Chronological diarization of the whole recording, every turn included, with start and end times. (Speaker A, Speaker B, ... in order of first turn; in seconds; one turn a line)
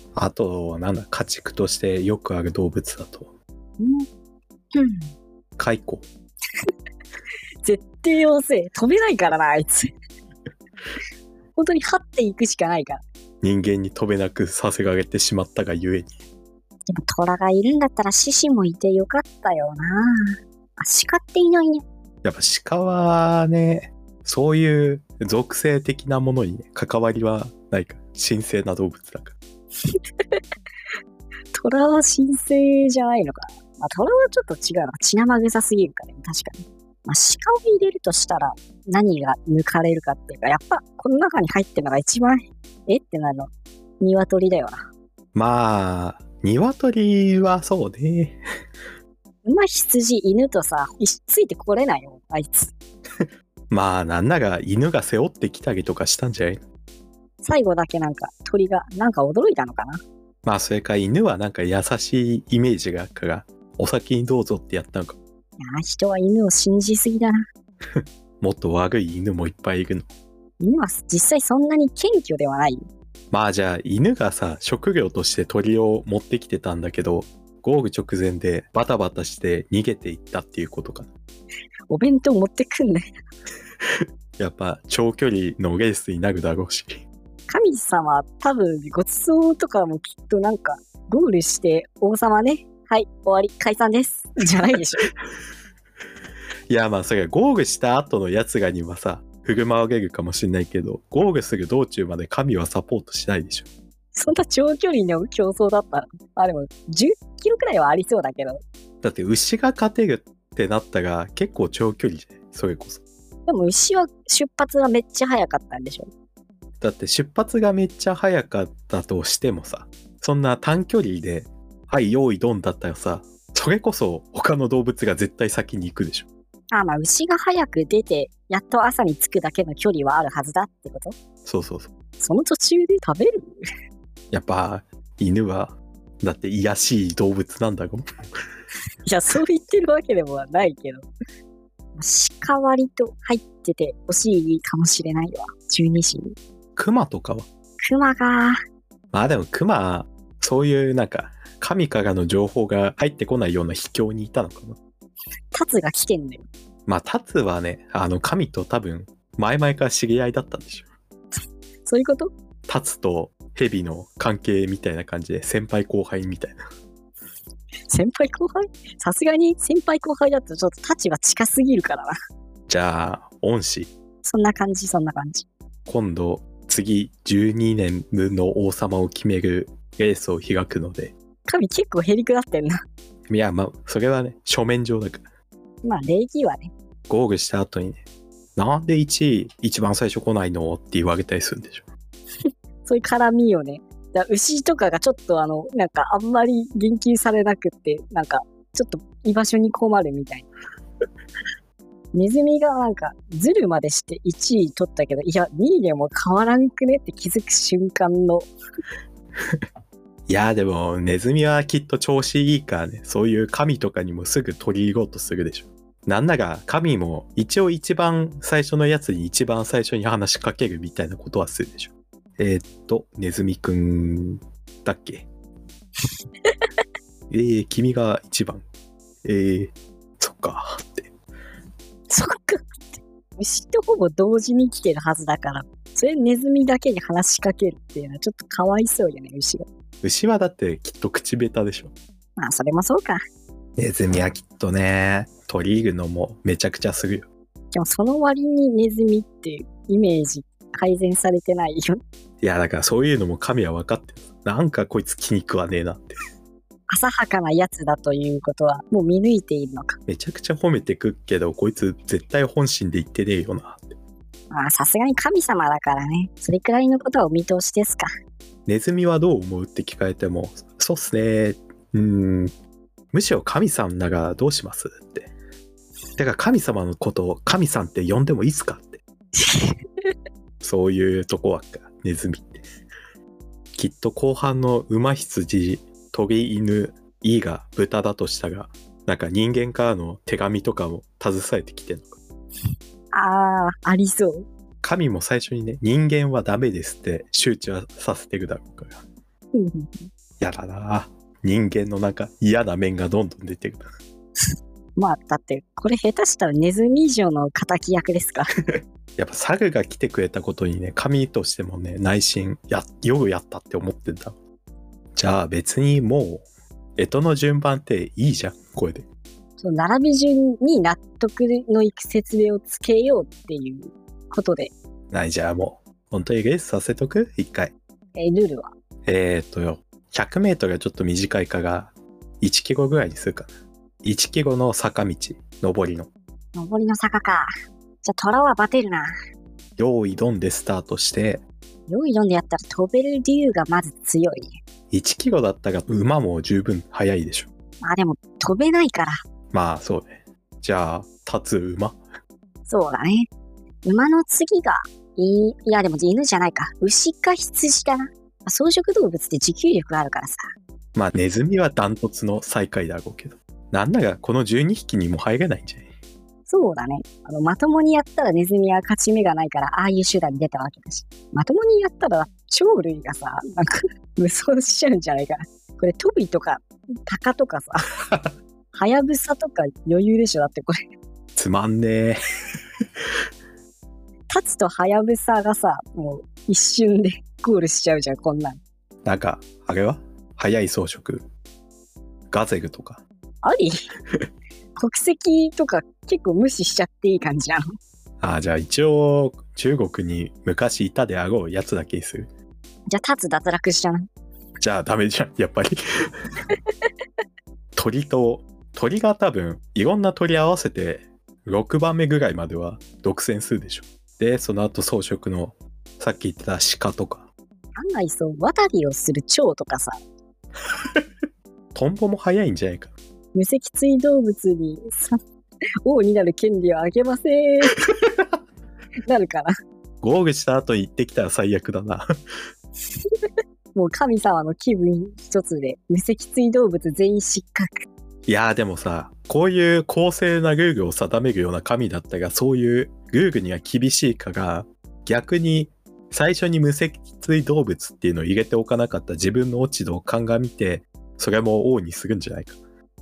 Speaker A: 0.1-3.3
Speaker B: 3.8-4.1
Speaker B: 4.7-5.1
Speaker A: 5.6-6.1
Speaker B: 7.6-9.9
Speaker B: 11.6-13.0
Speaker A: 13.4-16.1
Speaker B: 16.9-20.1
Speaker B: 20.8-21.8
Speaker A: 22.2-29.4
Speaker B: 31.5-43.5
Speaker B: 44.0-44.8
Speaker A: 45.3-48.4
Speaker B: 49.4-52.7
Speaker A: 53.7-56.6
Speaker B: 57.4-60.0
Speaker A: 60.4-65.2
Speaker B: 65.6-67.4
Speaker A: 68.0-70.1
Speaker B: 70.6-72.8
Speaker A: 73.3-81.1
Speaker B: 81.9-83.0
Speaker A: 84.4-87.0
Speaker B: 87.5-95.0
Speaker A: 96.7-103.7
Speaker B: 104.1-108.6
Speaker A: 109.0-113.0
Speaker B: 113.5-116.1
Speaker A: 116.8-126.3
Speaker B: 126.7-131.1
Speaker A: 131.4-131.9
Speaker B: 132.2-133.6
Speaker A: 134.3-138.0
Speaker B: 139.0-141.1
Speaker B: 142.0-146.3
Speaker A: 146.8-147.5
Speaker B: 147.8-148.6
Speaker A: 149.1-154.8
Speaker B: 155.5-156.4
Speaker A: 156.9-160.9
Speaker B: 161.8-162.3
Speaker A: 162.7-166.6
Speaker B: 167.9-172.1
Speaker A: 172.7-173.9
Speaker B: 174.2-175.5
Speaker A: 175.9-181.1
Speaker B: 181.5-182.7
Speaker A: 183.3-185.2
Speaker B: 185.8-186.7
Speaker A: 187.1-188.0
Speaker A: 188.6-191.8
Speaker B: 192.8-200.5
Speaker B: 202.1-208.5
Speaker A: 210.3-225.3
Speaker A: 227.3-228.6
Speaker A: 229.2-231.1
Speaker B: 232.1-239.7
Speaker A: 240.0-241.9
Speaker B: 242.4-243.2
Speaker A: 243.8-247.3
Speaker B: 247.7-252.0
Speaker A: 252.4-256.2
Speaker B: 256.9-260.0
Speaker A: 260.1-264.0
Speaker B: 264.5-268.1
Speaker A: 268.6-272.5
Speaker A: 273.1-275.3
Speaker A: 276.2-279.0
Speaker B: 279.4-280.1
Speaker A: 280.6-282.6
Speaker A: 283.7-292.2
Speaker B: 293.1-294.4
Speaker A: 294.8-299.0
Speaker B: 299.5-300.1
Speaker A: 300.4-303.9
Speaker B: 305.0-308.5
Speaker A: 309.2-314.4
Speaker A: 315.1-316.4
Speaker A: 317.0-319.1
Speaker B: 319.6-324.7
Speaker A: 325.1-327.7
Speaker B: 328.1-328.7
Speaker A: 329.1-333.5
Speaker A: 334.0-336.1
Speaker B: 336.5-337.5
Speaker B: 338.0-339.1
Speaker A: 339.8-341.4
Speaker B: 341.9-344.6
Speaker A: 344.9-347.5
Speaker B: 347.8-349.2
Speaker A: 349.5-352.0
Speaker B: 352.7-353.3
Speaker B: 353.8-360.4
Speaker A: 360.9-365.9
Speaker B: 366.5-377.9
Speaker B: 378.7-380.7
Speaker A: 381.4-382.2
Speaker B: 384.3-388.6
Speaker A: 389.0-391.2
Speaker A: 392.3-393.0
Speaker B: 393.4-393.7
Speaker B: 394.8-397.6
Speaker A: 398.2-402.3
Speaker B: 402.9-404.1
Speaker A: 404.6-405.8
Speaker A: 407.8-417.3
Speaker B: 417.8-420.0
Speaker A: 421.7-422.9
Speaker B: 423.3-425.1
Speaker B: 425.8-427.8
Speaker B: 429.1-429.5
Speaker A: 430.0-432.1
Speaker B: 433.7-437.8
Speaker A: 438.3-452.6